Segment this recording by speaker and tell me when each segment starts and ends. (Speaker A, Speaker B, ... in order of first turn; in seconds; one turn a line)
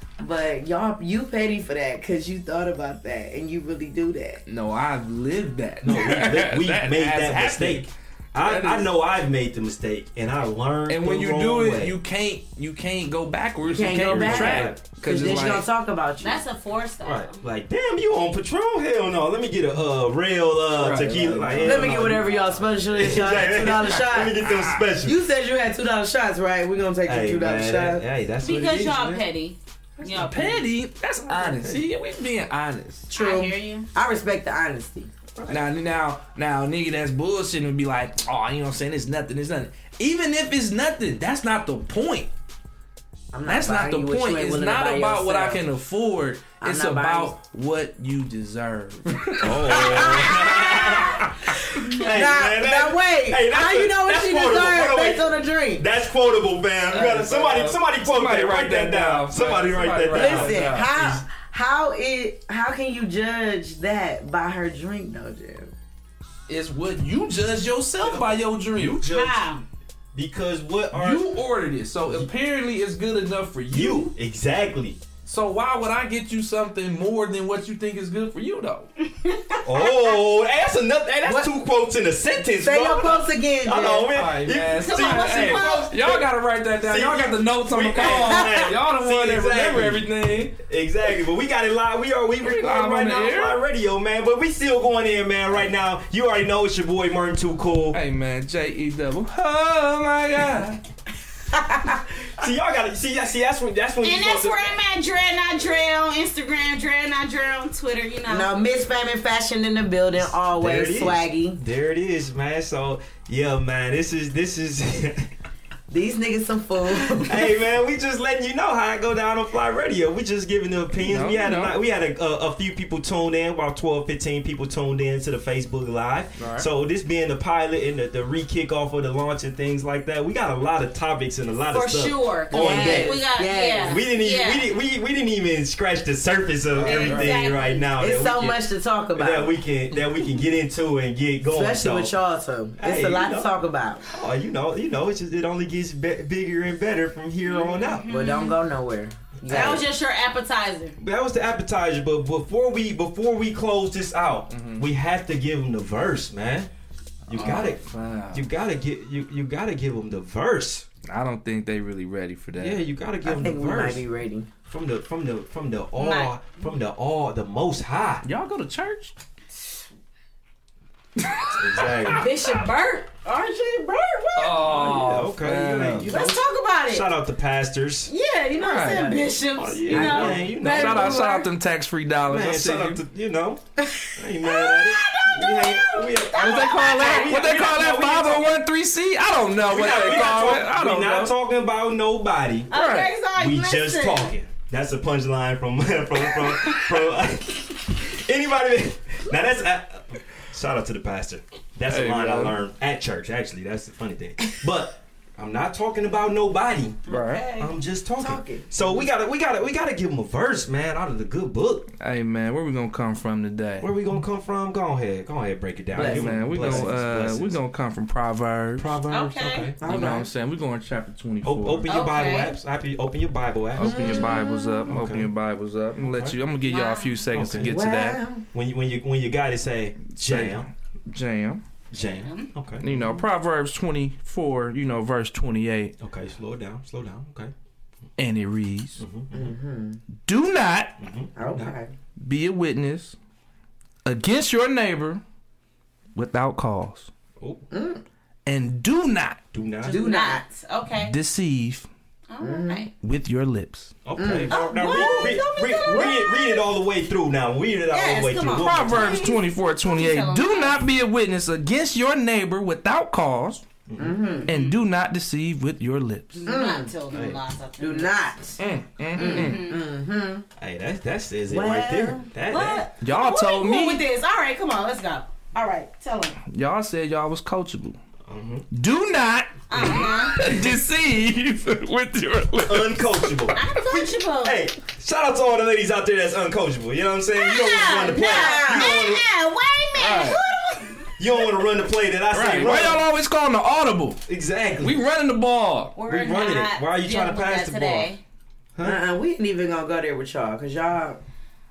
Speaker A: 0.2-4.4
Speaker B: 4.5-8.9
Speaker C: 5.8-11.9
Speaker B: 10.9-15.7
Speaker A: 13.7-16.4
Speaker C: 13.9-14.8
Speaker D: 16.2-17.4
Speaker C: 17.0-25.1
Speaker B: 20.7-22.5
Speaker A: 21.6-24.4
Speaker B: 23.7-24.9
Speaker A: 25.0-28.0
Speaker C: 27.0-29.2
Speaker D: 28.4-30.6
Speaker B: 30.1-33.1
Speaker C: 31.3-31.8
Speaker A: 33.1-35.1
Speaker D: 33.1-33.9
Speaker B: 35.5-42.3
Speaker A: 43.3-45.6
Speaker B: 43.5-50.6
Speaker A: 46.6-47.4
Speaker C: 49.4-60.8
Speaker A: 49.7-51.1
Speaker A: 51.8-55.8
Speaker B: 56.9-61.2
Speaker A: 60.1-65.7
Speaker B: 66.5-69.1
Speaker C: 68.0-69.4
Speaker D: 69.0-69.6
Speaker C: 70.1-71.2
Speaker B: 70.9-74.1
Speaker C: 73.7-75.0
Speaker B: 75.2-78.9
Speaker D: 79.0-79.9
Speaker C: 79.6-98.0
Speaker A: 81.2-81.5
Speaker A: 82.6-84.2
Speaker B: 84.1-90.5
Speaker D: 84.8-85.9
Speaker A: 88.0-88.6
Speaker B: 92.4-93.6
Speaker B: 97.9-100.8
Speaker C: 101.9-104.8
Speaker D: 104.0-108.6
Speaker A: 108.3-111.6
Speaker C: 110.5-115.3
Speaker A: 115.9-117.5
Speaker C: 117.1-133.2
Speaker B: 121.0-121.7
Speaker B: 126.4-126.7
Speaker D: 131.7-134.6
Speaker A: 132.5-134.0
Speaker C: 133.8-138.6
Speaker B: 136.7-137.4
Speaker D: 136.8-137.8
Speaker A: 138.0-139.6
Speaker C: 139.1-142.1
Speaker A: 141.4-144.0
Speaker C: 142.8-143.5
Speaker C: 144.1-148.0
Speaker D: 147.4-148.6
Speaker A: 148.1-149.9
Speaker C: 149.4-149.8
Speaker D: 149.5-151.0
Speaker C: 151.0-156.7
Speaker B: 154.5-154.9
Speaker C: 157.3-160.9
Speaker B: 157.3-158.5
Speaker B: 161.1-163.4
Speaker C: 162.6-164.0
Speaker A: 163.2-164.5
Speaker C: 164.7-168.2
Speaker D: 166.0-166.3
Speaker B: 168.2-169.1
Speaker B: 171.2-172.2
Speaker C: 171.5-172.3
Speaker D: 172.1-174.5
Speaker B: 174.3-176.1
Speaker C: 174.6-178.1
Speaker D: 176.1-177.1
Speaker D: 178.1-181.5
Speaker B: 178.6-179.2
Speaker A: 179.0-179.3
Speaker C: 179.5-181.2
Speaker B: 179.9-183.0
Speaker C: 182.3-183.6
Speaker C: 184.1-188.6
Speaker D: 184.4-187.3
Speaker B: 186.3-191.3
Speaker C: 189.6-192.7
Speaker D: 192.7-194.3
Speaker B: 192.7-193.1
Speaker C: 193.3-211.9
Speaker B: 201.9-202.6
Speaker B: 207.1-207.4
Speaker D: 207.1-207.7
Speaker A: 208.2-209.0
Speaker B: 212.0-213.9
Speaker C: 213.8-217.6
Speaker A: 215.9-216.9
Speaker B: 215.9-219.0
Speaker C: 218.8-219.8
Speaker D: 219.1-219.7
Speaker A: 219.8-220.3
Speaker B: 219.8-222.1
Speaker C: 221.4-225.3
Speaker D: 221.9-222.5
Speaker B: 223.8-228.2
Speaker A: 223.8-224.8
Speaker C: 226.0-226.4
Speaker D: 226.7-227.2
Speaker C: 227.3-227.7
Speaker A: 227.6-228.4
Speaker C: 228.5-230.7
Speaker B: 230.1-231.6
Speaker C: 231.9-232.9
Speaker D: 232.2-232.5
Speaker B: 232.8-235.9
Speaker C: 236.0-237.5
Speaker B: 238.2-239.0
Speaker C: 239.0-239.5
Speaker A: 239.3-240.0
Speaker B: 240.2-241.0
Speaker C: 241.0-241.8
Speaker A: 241.3-241.9
Speaker B: 242.2-243.2
Speaker B: 244.0-245.2
Speaker B: 246.1-247.1
Speaker A: 247.7-248.0
Speaker B: 248.4-249.4
Speaker C: 249.5-250.0
Speaker A: 249.8-250.4
Speaker D: 249.9-251.1
Speaker B: 251.0-251.9
Speaker D: 252.3-252.9
Speaker A: 252.4-252.9
Speaker B: 253.0-254.0
Speaker C: 254.0-259.3
Speaker A: 254.2-255.4
Speaker D: 254.5-256.6
Speaker D: 257.9-260.8
Speaker B: 258.5-263.6
Speaker C: 263.9-264.2
Speaker A: 264.0-264.5
Speaker D: 264.4-264.7
Speaker B: 264.5-266.4
Speaker D: 266.3-268.2
Speaker A: 266.4-266.9
Speaker C: 267.1-267.4
Speaker A: 267.8-268.6
Speaker B: 268.6-269.6
Speaker A: 269.1-270.4
Speaker D: 269.1-269.8
Speaker C: 270.6-272.9
Speaker A: 271.5-272.3
Speaker D: 272.4-276.4
Speaker B: 273.0-274.0
Speaker B: 276.5-278.0
Speaker C: 278.3-278.6
Speaker B: 278.7-283.3
Speaker D: 279.7-280.4
Speaker C: 282.7-289.2
Speaker D: 283.5-284.6
Speaker D: 287.3-291.4
Speaker A: 288.1-289.1
Speaker B: 289.9-290.4
Speaker C: 291.2-293.0
Speaker B: 292.3-294.2
Speaker C: 294.3-294.9
Speaker B: 294.8-295.9
Speaker D: 295.9-298.2
Speaker C: 296.0-298.1
Speaker A: 298.8-301.2